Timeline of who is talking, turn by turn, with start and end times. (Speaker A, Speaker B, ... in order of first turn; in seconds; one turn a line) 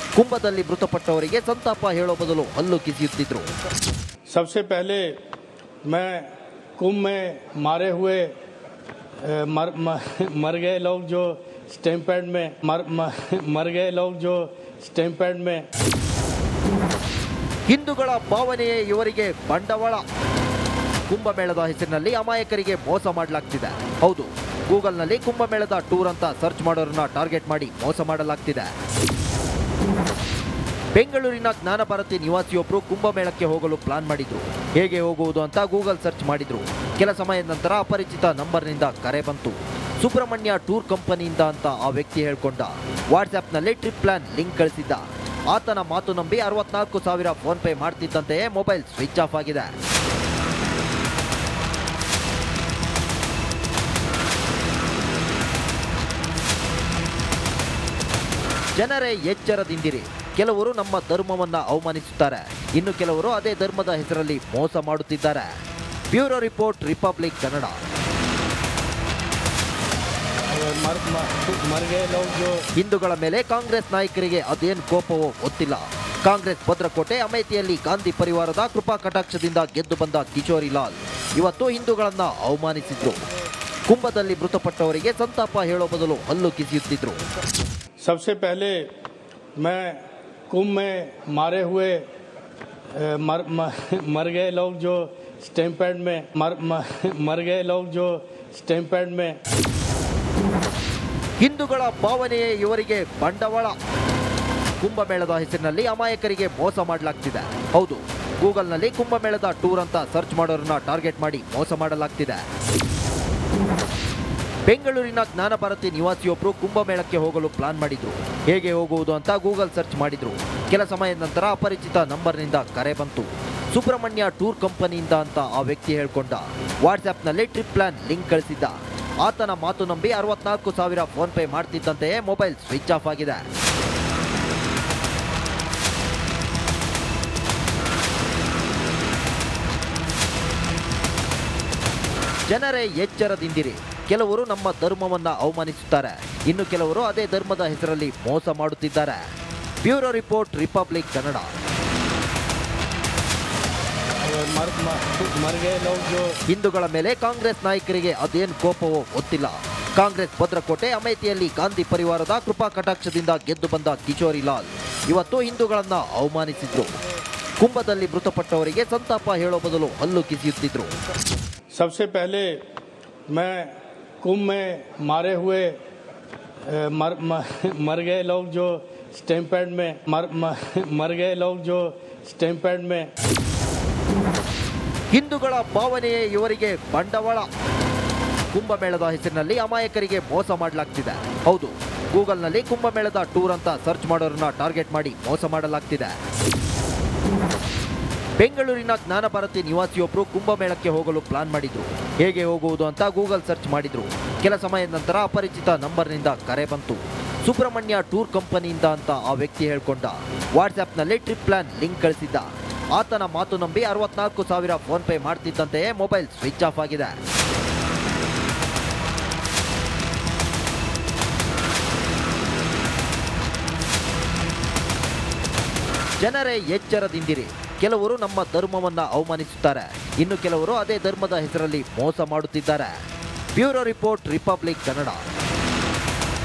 Speaker A: 0.2-3.5
Speaker B: 4.3-5.2
Speaker B: 5.8-8.3
Speaker B: 9.2-15.7
Speaker A: 17.7-20.0
Speaker A: 21.1-28.7
Speaker A: 30.9-49.7
Speaker A: 58.8-65.5
Speaker A: 66.1-67.8
Speaker B: 70.5-72.6
Speaker A: 72.7-83.2
Speaker A: 83.9-87.2
Speaker B: 88.0-88.9
Speaker B: 89.6-92.1
Speaker B: 92.9-99.4
Speaker A: 101.4-103.7
Speaker A: 104.8-112.4
Speaker A: 114.7-133.4
Speaker A: 142.5-149.2
Speaker A: 149.8-151.5
Speaker B: 154.2-156.3
Speaker A: 156.5-167.0
Speaker A: 167.6-170.9
Speaker B: 171.7-172.6
Speaker B: 173.3-175.8
Speaker B: 176.7-183.1
Speaker A: 185.1-187.4
Speaker A: 188.5-196.1
Speaker A: 198.4-217.2
Speaker A: 226.2-232.9
Speaker A: 233.5-235.2